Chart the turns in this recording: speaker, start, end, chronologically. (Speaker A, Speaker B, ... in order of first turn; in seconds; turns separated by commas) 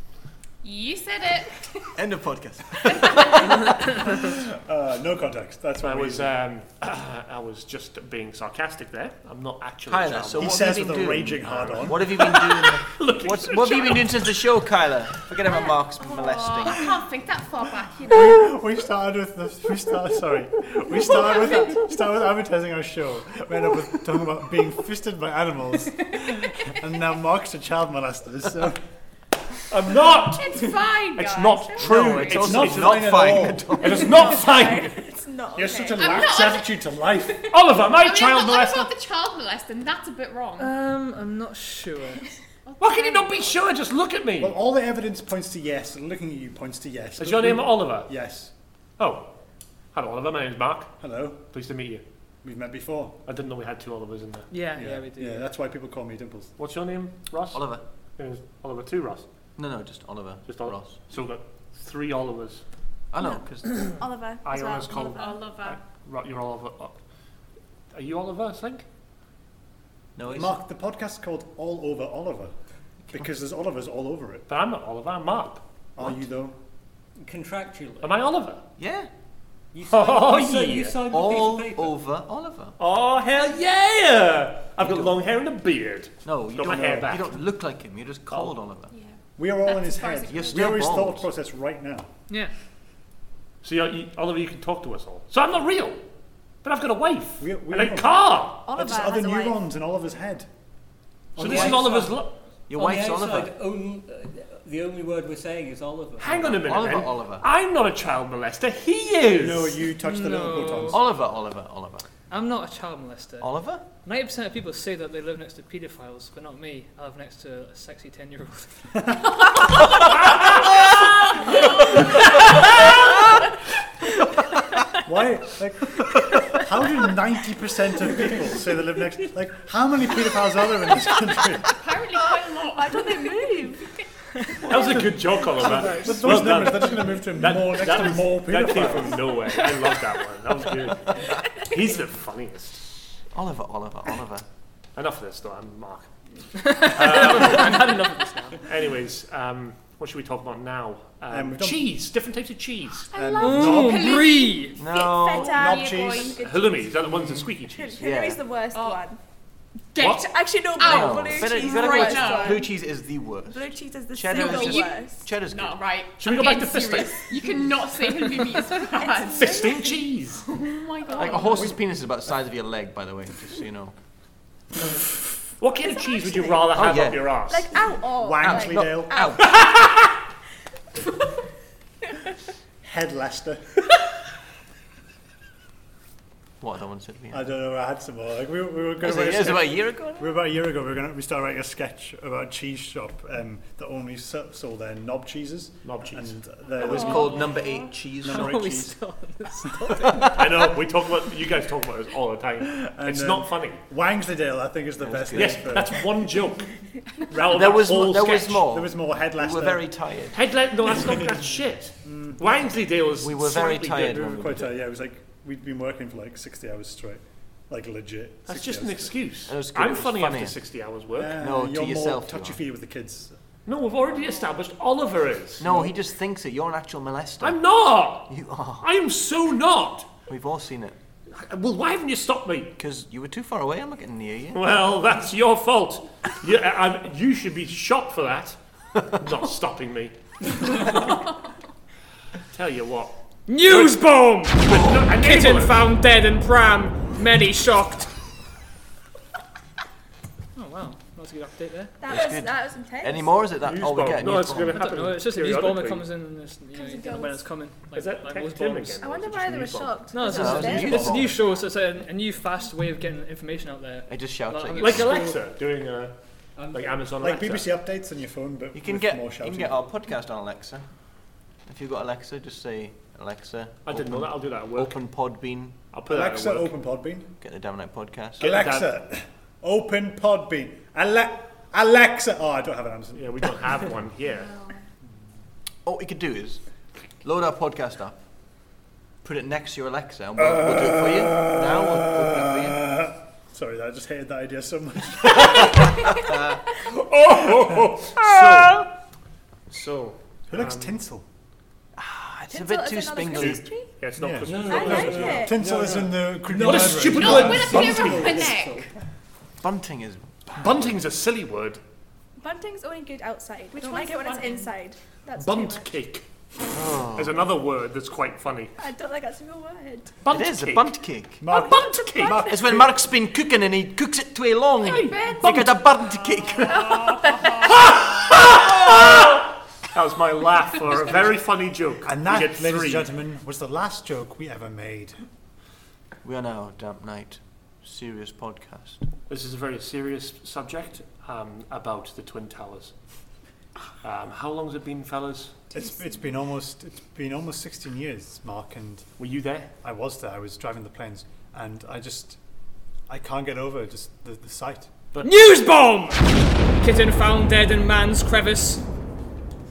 Speaker A: 0.6-1.9, Speaker B: 1.9-4.1, Speaker A: 2.8-3.8, Speaker C: 4.0-6.3, Speaker D: 5.8-10.7, Speaker B: 9.9-16.9, Speaker C: 10.4-12.2, Speaker D: 11.4-14.3, Speaker A: 15.5-18.5, Speaker C: 18.1-28.8, Speaker D: 29.7-30.6, Speaker A: 30.0-32.2, Speaker D: 31.1-33.1, Speaker B: 31.8-34.2, Speaker C: 32.3-33.8, Speaker D: 33.8-35.0, Speaker E: 34.0-36.3, Speaker C: 35.5-37.4, Speaker A: 35.9-36.7, Speaker A: 37.3-40.7, Speaker D: 37.5-38.9, Speaker F: 40.6-42.3, Speaker A: 42.6-43.6, Speaker D: 42.8-44.6, Speaker C: 44.4-48.5, Speaker D: 47.2-48.1, Speaker D: 49.0-49.3, Speaker D: 49.9-52.0, Speaker C: 51.0-51.4, Speaker C: 52.4-53.1, Speaker D: 53.2-54.5, Speaker F: 54.5-55.5, Speaker C: 54.7-56.5, Speaker D: 56.6-59.2, Speaker B: 57.5-57.8, Speaker B: 59.6-61.0, Speaker D: 60.5-62.6, Speaker B: 63.1-63.9, Speaker E: 63.2-65.3, Speaker D: 64.4-67.0, Speaker A: 65.1-65.8, Speaker D: 67.9-68.8, Speaker B: 70.2-70.6, Speaker C: 70.3-72.5, Speaker C: 73.1-74.5, Speaker D: 74.5-75.6, Speaker C: 76.0-76.6, Speaker G: 77.2-78.2, Speaker D: 78.0-78.6, Speaker B: 78.8-79.1, Speaker G: 79.7-81.9, Speaker D: 79.9-81.0, Speaker B: 81.1-82.8, Speaker D: 82.8-87.3, Speaker B: 84.8-85.1, Speaker B: 86.2-88.9, Speaker D: 88.3-88.5, Speaker A: 88.9-90.7, Speaker C: 89.4-92.1, Speaker B: 90.3-91.2, Speaker D: 93.6-96.0, Speaker D: 96.6-98.6, Speaker C: 97.4-100.5, Speaker E: 98.6-99.6, Speaker C: 101.3-101.9, Speaker D: 101.4-102.3, Speaker G: 101.4-106.8, Speaker B: 102.7-103.5, Speaker D: 106.2-109.8, Speaker B: 106.6-107.5, Speaker C: 109.4-111.0, Speaker F: 109.9-111.0, Speaker B: 110.9-112.0, Speaker F: 112.3-113.5, Speaker B: 113.4-113.8, Speaker F: 114.0-119.2, Speaker C: 124.9-131.7, Speaker A: 131.7-133.7, Speaker E: 132.7-133.8, Speaker E: 134.6-135.7, Speaker D: 134.6-142.9, Speaker C: 135.5-139.3, Speaker F: 135.8-136.1, Speaker B: 143.3-144.4, Speaker D: 144.9-146.1, Speaker F: 146.6-148.6, Speaker D: 146.7-148.0, Speaker D: 148.6-153.1, Speaker C: 151.3-151.9, Speaker A: 153.1-156.4, Speaker C: 153.1-154.2, Speaker F: 153.4-154.8, Speaker E: 154.1-159.2, Speaker B: 154.8-155.6, Speaker C: 155.5-156.4, Speaker D: 156.4-157.9, Speaker B: 158.0-158.4, Speaker A: 158.7-159.0, Speaker A: 159.9-162.7, Speaker D: 160.0-160.2, Speaker E: 160.0-162.8, Speaker B: 160.8-165.8, Speaker E: 163.5-165.3, Speaker A: 164.3-169.8, Speaker D: 166.2-168.1, Speaker E: 169.0-170.0, Speaker D: 169.4-170.5, Speaker A: 170.4-171.8, Speaker E: 171.1-171.7, Speaker B: 171.1-173.9, Speaker D: 175.6-177.7, Speaker A: 176.0-176.6, Speaker B: 176.7-177.3, Speaker E: 177.5-179.6, Speaker C: 178.2-179.2, Speaker B: 178.4-179.5, Speaker D: 179.4-180.1, Speaker C: 182.8-183.6, Speaker B: 186.6-187.4, Speaker C: 187.3-197.6, Speaker B: 189.0-190.4, Speaker D: 195.8-196.4, Speaker B: 196.8-198.9, Speaker E: 196.8-197.9, Speaker A: 197.1-197.8, Speaker F: 198.2-200.6, Speaker C: 198.2-198.7, Speaker B: 200.0-200.4, Speaker D: 200.3-203.8, Speaker C: 202.7-206.0, Speaker B: 205.0-205.8, Speaker D: 205.3-208.6, Speaker B: 207.5-210.4, Speaker C: 208.1-209.9, Speaker D: 210.3-214.3, Speaker C: 210.9-212.4, Speaker B: 213.2-214.7, Speaker C: 214.1-219.1, Speaker D: 218.5-221.4, Speaker B: 219.5-220.6, Speaker C: 221.2-223.3, Speaker B: 221.4-222.6, Speaker D: 223.7-225.7, Speaker B: 225.6-227.6, Speaker C: 225.6-225.9, Speaker D: 227.4-230.1, Speaker B: 228.2-228.8, Speaker B: 230.3-231.0, Speaker D: 231.3-232.8, Speaker B: 232.8-234.6, Speaker D: 234.5-241.0, Speaker D: 242.5-244.1, Speaker F: 243.5-248.1, Speaker D: 244.6-245.9, Speaker F: 250.5-251.9, Speaker E: 252.0-253.4, Speaker B: 252.1-254.8, Speaker D: 253.6-256.1, Speaker F: 254.7-259.0, Speaker E: 256.7-257.4, Speaker D: 257.9-260.0, Speaker E: 259.0-261.2, Speaker F: 260.1-265.2, Speaker B: 260.3-261.3, Speaker C: 260.4-261.4, Speaker B: 264.1-265.1, Speaker D: 264.8-267.7, Speaker C: 265.1-265.4, Speaker G: 266.6-267.0, Speaker C: 267.2-269.9, Speaker B: 268.7-270.8, Speaker B: 271.6-275.8, Speaker D: 273.8-275.0, Speaker D: 275.9-276.7, Speaker C: 276.1-277.3, Speaker B: 277.4-278.6, Speaker D: 278.4-278.9, Speaker C: 278.4-283.6, Speaker D: 283.1-284.6, Speaker A: 284.4-284.8, Speaker B: 285.8-286.6, Speaker B: 287.2-288.2, Speaker B: 289.2-292.9, Speaker C: 290.7-295.9, Speaker B: 296.1-296.6, Speaker D: 296.8-298.9, Speaker B: 298.1-298.9, Speaker D: 299.7-300.9, Speaker C: 300.5-301.2, Speaker B: 301.9-303.7, Speaker E: 302.5-303.9, Speaker D: 303.3-305.6, Speaker C: 304.1-308.1, Speaker G: 304.4-308.9, Speaker E: 304.7-305.6, Speaker D: 306.6-308.5, Speaker A: 307.1-308.9, Speaker B: 309.6-311.0, Speaker D: 310.6-311.8, Speaker E: 312.4-315.9, Speaker A: 313.7-314.7, Speaker D: 315.3-316.2, Speaker B: 316.7-317.4, Speaker D: 317.1-318.7, Speaker E: 318.8-320.1, Speaker D: 320.2-322.5, Speaker B: 320.3-321.4, Speaker C: 321.4-322.9, Speaker E: 321.5-322.6, Speaker B: 322.5-327.0, Speaker A: 324.8-325.5, Speaker D: 324.9-325.8, Speaker D: 326.6-333.1, Speaker A: 326.7-328.0, Speaker C: 332.0-335.2, Speaker B: 336.2-339.1, Speaker D: 339.3-342.9, Speaker D: 344.0-345.5, Speaker C: 345.7-349.1, Speaker D: 349.2-349.7, Speaker C: 349.8-352.4, Speaker C: 353.1-354.9, Speaker D: 355.1-355.5, Speaker F: 355.2-358.8